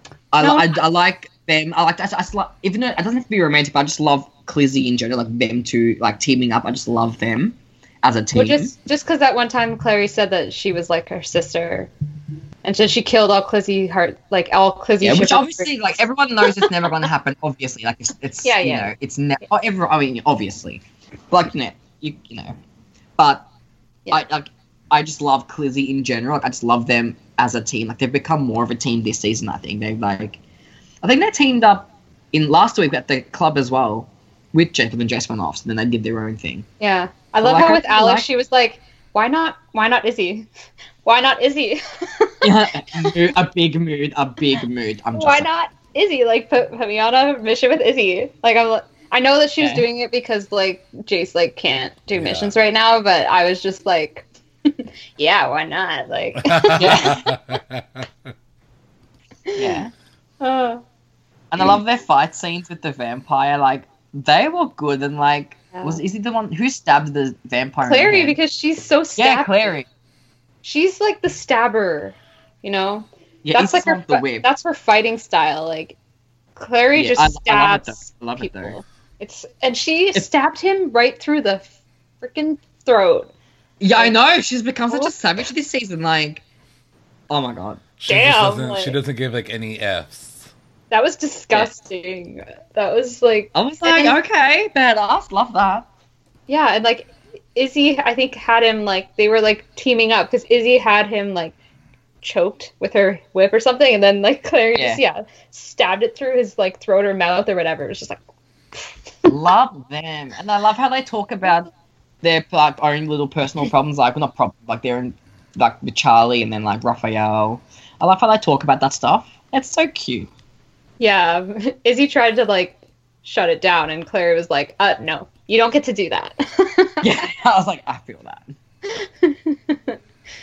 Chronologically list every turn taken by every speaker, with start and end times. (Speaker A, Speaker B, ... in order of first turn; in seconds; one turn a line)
Speaker A: 0.3-8.7
Speaker B: 0.4-0.8
Speaker B: 8.3-11.9
Speaker B: 12.6-15.7
Speaker A: 15.0-22.6
Speaker B: 16.4-16.7
Speaker B: 18.4-18.9
Speaker A: 23.2-23.5
Speaker A: 24.1-30.4
Speaker A: 31.0-36.7
Speaker B: 36.8-40.5
Speaker A: 37.4-38.3
Speaker B: 41.0-43.1
Speaker A: 42.4-45.5
Speaker B: 45.1-57.2
Speaker A: 49.6-49.9
Speaker C: 52.1-52.6
Speaker C: 56.4-58.1
Speaker A: 56.8-57.3
Speaker B: 59.5-59.8
Speaker A: 59.5-59.9
Speaker B: 60.4-60.8
Speaker A: 61.5-68.4
Speaker B: 65.7-66.0
Speaker B: 67.8-69.7
Speaker A: 69.2-69.9
Speaker B: 70.6-76.0
Speaker A: 73.4-74.5
Speaker B: 76.6-81.7
Speaker A: 77.0-78.8
Speaker B: 82.2-83.3
Speaker A: 83.8-86.4
Speaker A: 87.3-87.8
Speaker C: 88.0-90.5
Speaker B: 88.1-89.0
Speaker B: 90.9-94.2
Speaker A: 93.5-95.9
Speaker B: 96.5-101.5
Speaker B: 102.2-108.2
Speaker A: 104.8-105.0
Speaker A: 109.3-111.7
Speaker A: 112.2-120.3
Speaker B: 121.0-127.1
Speaker A: 127.0-128.5
Speaker B: 128.9-130.0